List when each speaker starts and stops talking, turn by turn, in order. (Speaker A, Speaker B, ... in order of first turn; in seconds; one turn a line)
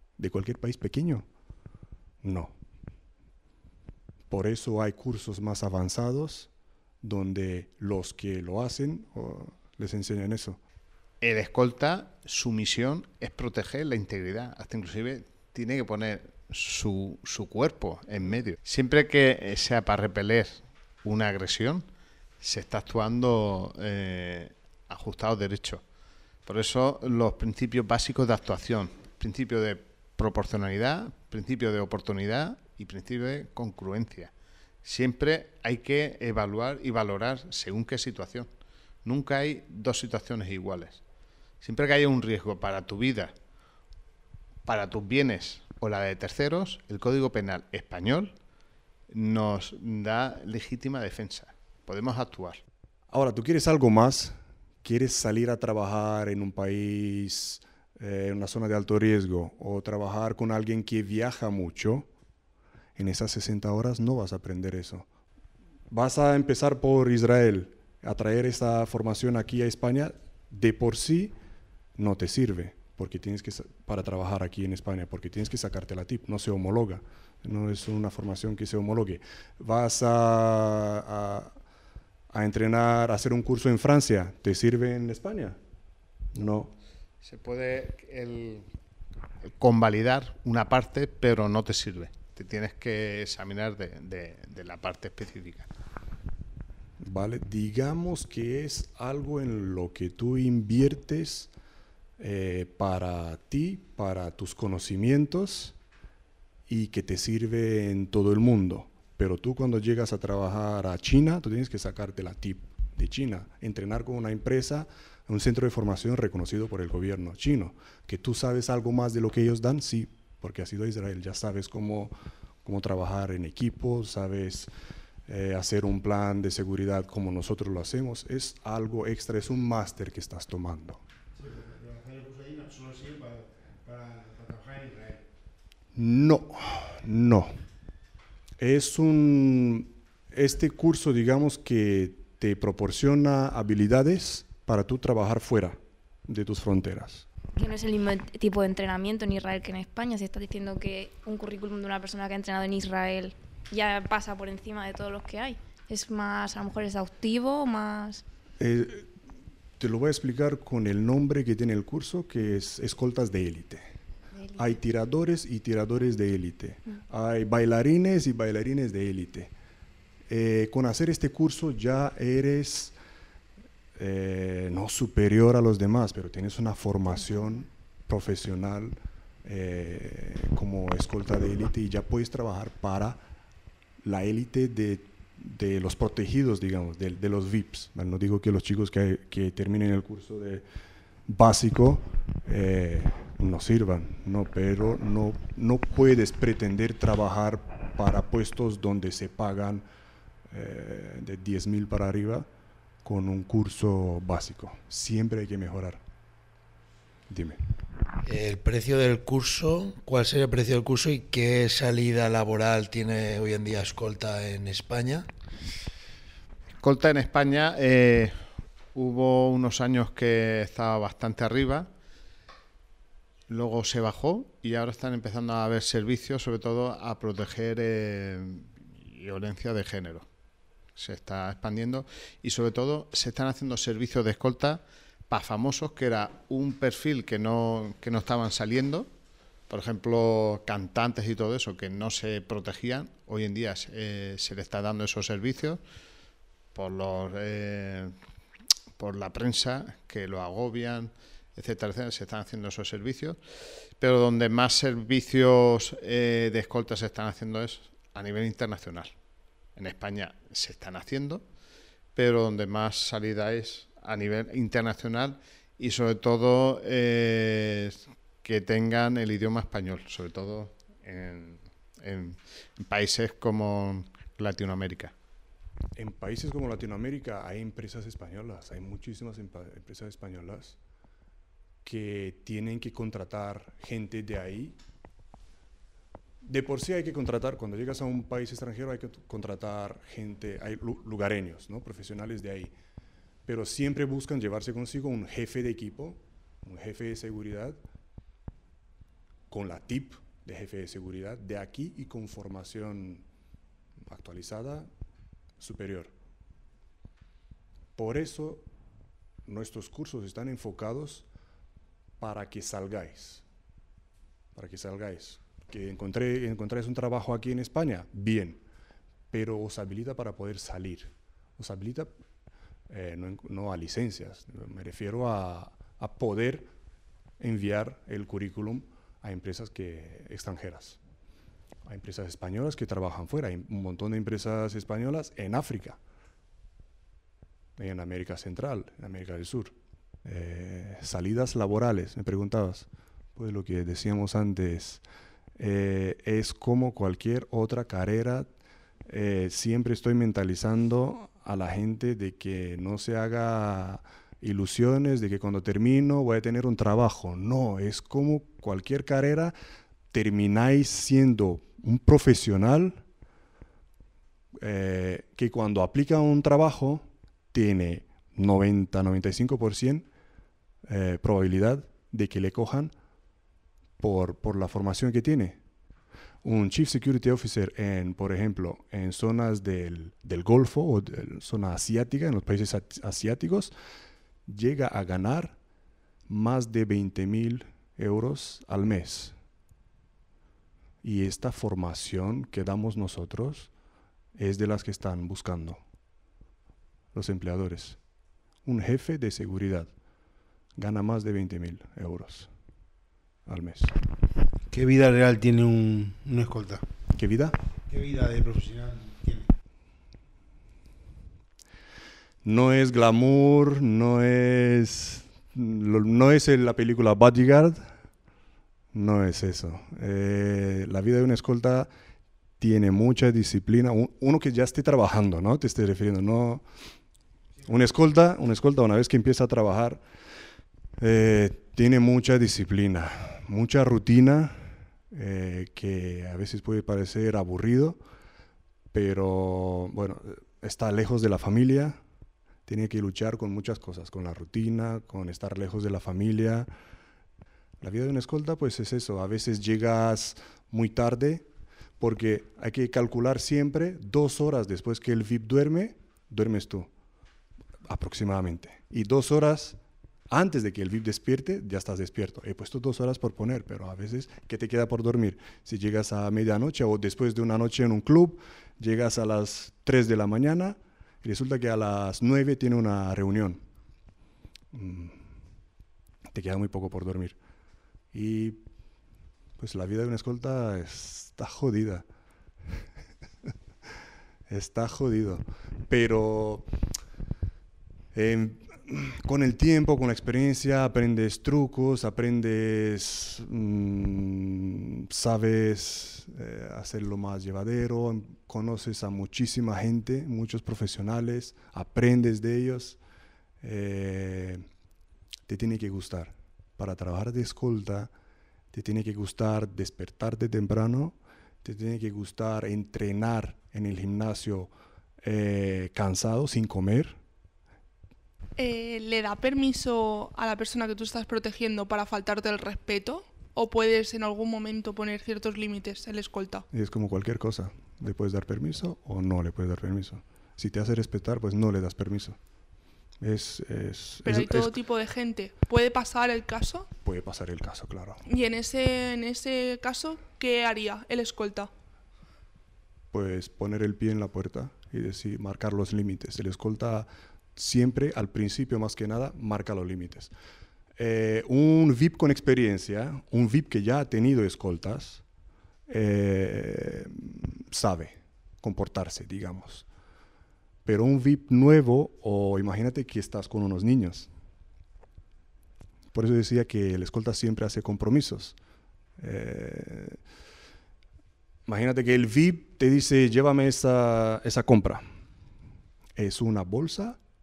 Speaker A: 0.2-1.3
Speaker A: 2.2-2.6
Speaker A: 4.3-6.5
Speaker A: 7.0-10.6
Speaker B: 11.2-21.9
Speaker B: 22.4-25.8
Speaker B: 26.4-34.3
Speaker B: 34.8-38.5
Speaker B: 39.0-41.0
Speaker B: 41.6-43.3
Speaker B: 44.7-48.3
Speaker B: 49.1-52.6
Speaker A: 53.1-62.1
Speaker A: 63.0-65.1
Speaker A: 65.9-71.3
Speaker A: 72.0-81.5
Speaker A: 82.3-85.6
Speaker A: 86.3-86.7
Speaker B: 87.2-88.7
Speaker B: 89.6-95.7
Speaker A: 97.0-101.5
Speaker A: 102.2-105.8
Speaker A: 106.7-124.7
Speaker A: 125.3-131.0
Speaker C: 131.4-135.2
Speaker A: 135.9-137.5
Speaker A: 138.6-147.3
Speaker D: 147.6-158.2
Speaker A: 158.6-159.1
Speaker A: 159.8-163.9
Speaker D: 164.3-164.8
Speaker A: 164.5-169.5
Speaker A: 170.3-173.0
Speaker A: 174.0-183.2
Speaker A: 184.0-190.7
Speaker A: 191.3-199.9
Speaker A: 200.5-202.5
Speaker A: 203.0-206.0
Speaker A: 207.3-207.6
Speaker E: 208.3-215.3
Speaker B: 216.8-218.3
Speaker B: 218.9-221.9
Speaker B: 223.5-230.3
Speaker B: 231.0-239.1
Speaker B: 239.7-245.8
Speaker B: 246.7-248.1
Speaker B: 249.0-253.4
Speaker B: 254.0-259.1
Speaker B: 259.8-261.4
Speaker B: 262.1-275.1
Speaker A: 276.0-280.8
Speaker A: 281.8-284.8
Speaker A: 286.4-292.7
Speaker A: 293.5-297.8
Speaker A: 299.5-303.2
Speaker A: 304.1-304.9
Speaker A: 305.6-306.1
Speaker A: 308.0-308.7
Speaker A: 309.5-311.3
Speaker A: 312.2-313.4
Speaker A: 314.6-318.6
Speaker A: 319.3-322.1
Speaker A: 322.9-326.7
Speaker A: 327.4-331.0
Speaker A: 331.9-336.0
Speaker A: 337.8-345.0
Speaker A: 345.6-348.5
Speaker A: 349.1-359.6
Speaker A: 360.1-363.0
Speaker A: 364.6-370.1
Speaker A: 370.9-372.9
Speaker A: 374.0-375.6
Speaker A: 376.4-383.7
Speaker A: 384.5-385.6
Speaker A: 386.3-389.4
Speaker A: 391.0-393.7
Speaker A: 394.4-395.8
Speaker A: 397.1-398.0
Speaker A: 398.6-399.9
Speaker A: 400.8-402.5
Speaker A: 403.5-403.9
Speaker C: 404.7-406.8
Speaker A: 407.1-407.6
Speaker C: 407.9-409.5
Speaker A: 412.4-417.9
Speaker A: 418.9-421.9
Speaker A: 422.6-426.6
Speaker A: 427.6-430.0
Speaker A: 431.0-438.0
Speaker A: 438.9-442.0
Speaker A: 442.7-446.7
Speaker A: 447.8-451.5
Speaker A: 452.0-456.9
Speaker A: 457.9-459.8
Speaker A: 460.3-473.6
Speaker A: 474.7-475.3
Speaker A: 476.3-477.4
Speaker A: 478.1-478.6
Speaker A: 479.6-482.1
Speaker A: 484.5-486.7
Speaker A: 488.1-503.0
Speaker A: 503.6-504.7
Speaker A: 505.5-508.1
Speaker A: 508.7-514.7
Speaker A: 515.2-517.2
Speaker F: 518.6-526.6
Speaker A: 526.7-532.4
Speaker A: 533.2-534.7
Speaker F: 534.2-536.9
Speaker A: 537.0-538.2
Speaker F: 538.3-541.7
Speaker A: 543.1-550.3
Speaker A: 551.0-555.2
Speaker A: 555.9-559.9
Speaker A: 560.9-564.3
Speaker A: 566.1-568.6
Speaker A: 569.2-570.2
Speaker A: 571.7-575.0
Speaker A: 576.2-577.2